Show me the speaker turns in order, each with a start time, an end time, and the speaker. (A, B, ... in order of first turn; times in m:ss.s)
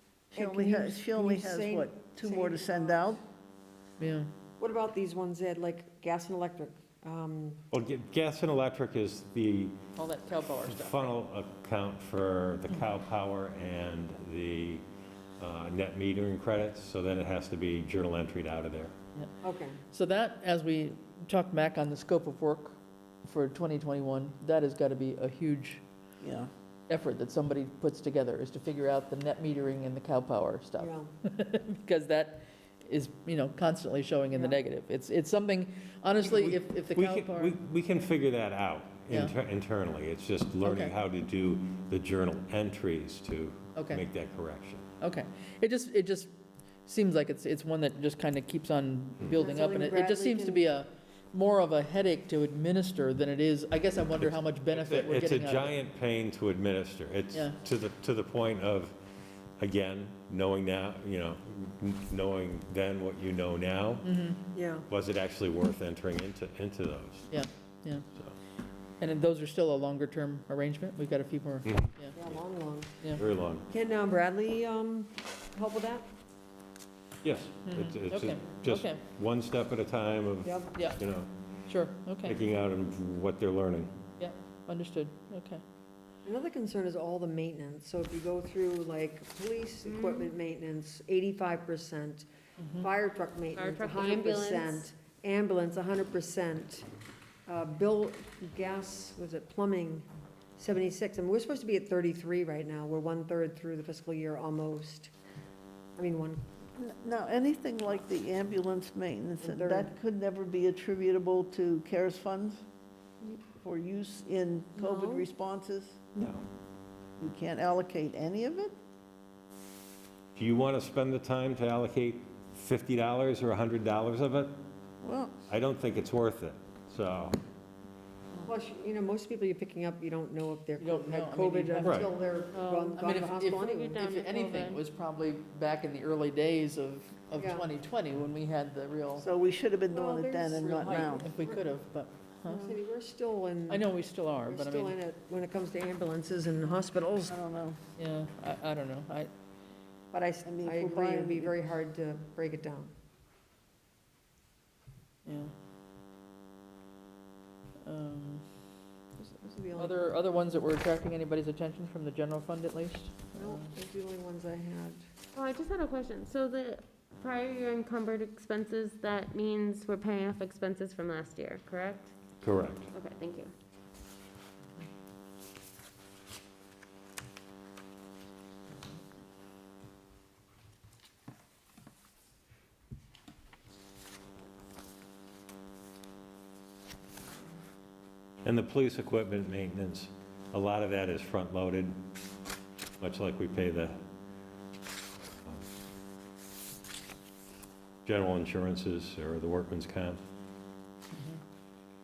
0:00.3-0:03.2 A
0:00.3-0:03.2 B
0:04.0-0:04.3 C
0:04.6-0:07.6 B
0:07.7-0:09.8 D
0:10.0-0:11.2 C
0:10.6-0:14.8 D
0:15.4-0:18.9 D
0:19.4-0:19.8 B
0:19.9-0:25.8 C
0:26.2-0:26.5 A
0:26.9-0:37.6 C
0:30.8-0:31.1 B
0:34.3-0:34.6 B
0:36.4-0:44.9 D
0:39.1-0:39.3 C
0:40.6-0:40.9 C
0:43.7-0:44.0 C
0:45.0-0:46.3 C
0:46.8-0:55.8 C
0:49.4-0:50.6 B
0:54.7-0:59.0 D
0:57.3-0:57.6 C
0:59.6-1:04.1 D
1:04.0-1:04.4 C
1:04.5-1:04.9 B
1:04.9-1:07.3 D
1:07.3-1:08.0 C
1:09.0-1:12.1 C
1:11.6-1:12.4 D
1:12.1-1:12.9 B
1:13.2-1:13.7 D
1:13.7-1:16.0 B
1:17.2-1:21.3 D
1:17.6-1:19.0 C
1:20.4-1:20.7 B
1:20.7-1:21.0 C
1:21.7-1:22.4 C
1:22.2-1:23.9 D
1:24.2-1:25.6 C
1:26.2-1:32.3 B
1:29.8-1:30.3 E
1:32.6-1:32.9 C
1:32.8-1:36.8 B
1:33.5-1:34.8 E
1:37.5-1:45.1 B
1:46.0-1:46.4 B
1:46.8-1:52.6 A
1:49.4-1:49.9 B
1:53.5-1:56.0 A
1:54.8-1:55.2 E
1:56.1-1:56.4 D
1:57.2-1:58.7 A
2:00.3-2:04.6 D
2:05.0-2:05.4 A
2:05.5-2:07.4 D
2:08.4-2:14.1 B
2:10.8-2:12.1 C
2:11.8-2:12.1 D
2:12.5-2:13.1 E
2:12.9-2:19.3 C
2:13.7-2:14.8 E
2:17.4-2:17.7 B
2:19.2-2:21.4 A
2:19.9-2:21.6 B
2:20.8-2:22.7 C
2:22.4-2:23.8 B
2:23.7-2:25.0 C
2:24.4-2:27.4 B
2:27.2-2:27.8 A
2:28.0-2:29.3 C
2:30.1-2:32.9 B
2:30.4-2:31.6 A
2:35.2-2:35.5 C
2:37.8-2:38.4 C
2:39.2-2:40.0 B
2:39.7-2:43.7 C
2:43.4-2:45.0 B
2:45.3-2:52.1 E
2:52.4-2:52.9 D
2:52.9-2:53.5 E
3:08.4-3:12.0 D
3:13.0-3:14.0 D
3:18.0-3:20.2 D
3:21.1-3:21.4 C